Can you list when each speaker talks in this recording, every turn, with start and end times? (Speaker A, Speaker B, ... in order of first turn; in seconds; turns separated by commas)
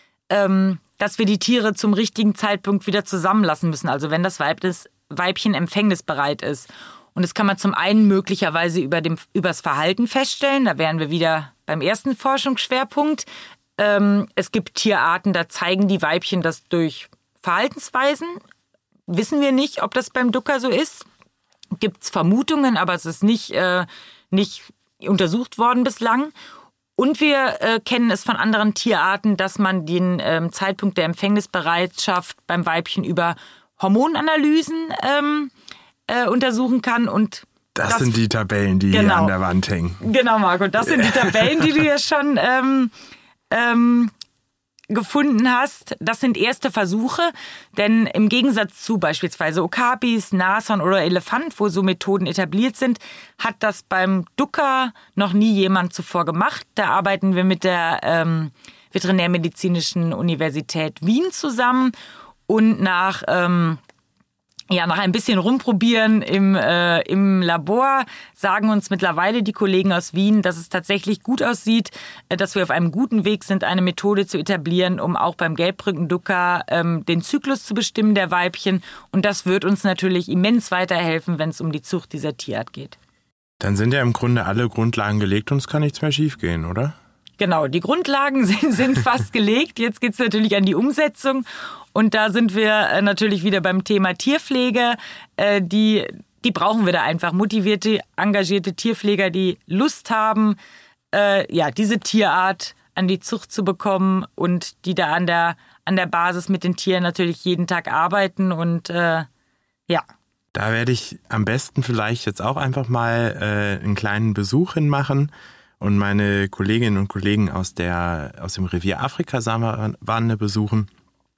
Speaker A: 0.3-13.3, Speaker A: 13.8-18.4, Speaker A: 19.1-21.1, Speaker A: 21.8-26.3, Speaker A: 27.0-35.5, Speaker A: 36.1-38.2, Speaker B: 37.8-40.1, Speaker A: 38.9-39.3, Speaker A: 40.0-42.9, Speaker B: 40.8-41.7, Speaker A: 43.5-44.1, Speaker A: 44.9-61.9, Speaker A: 62.5-63.8, Speaker A: 64.7-83.0, Speaker B: 83.6-87.0, Speaker A: 87.4-100.6, Speaker A: 101.1-109.3, Speaker B: 110.5-120.9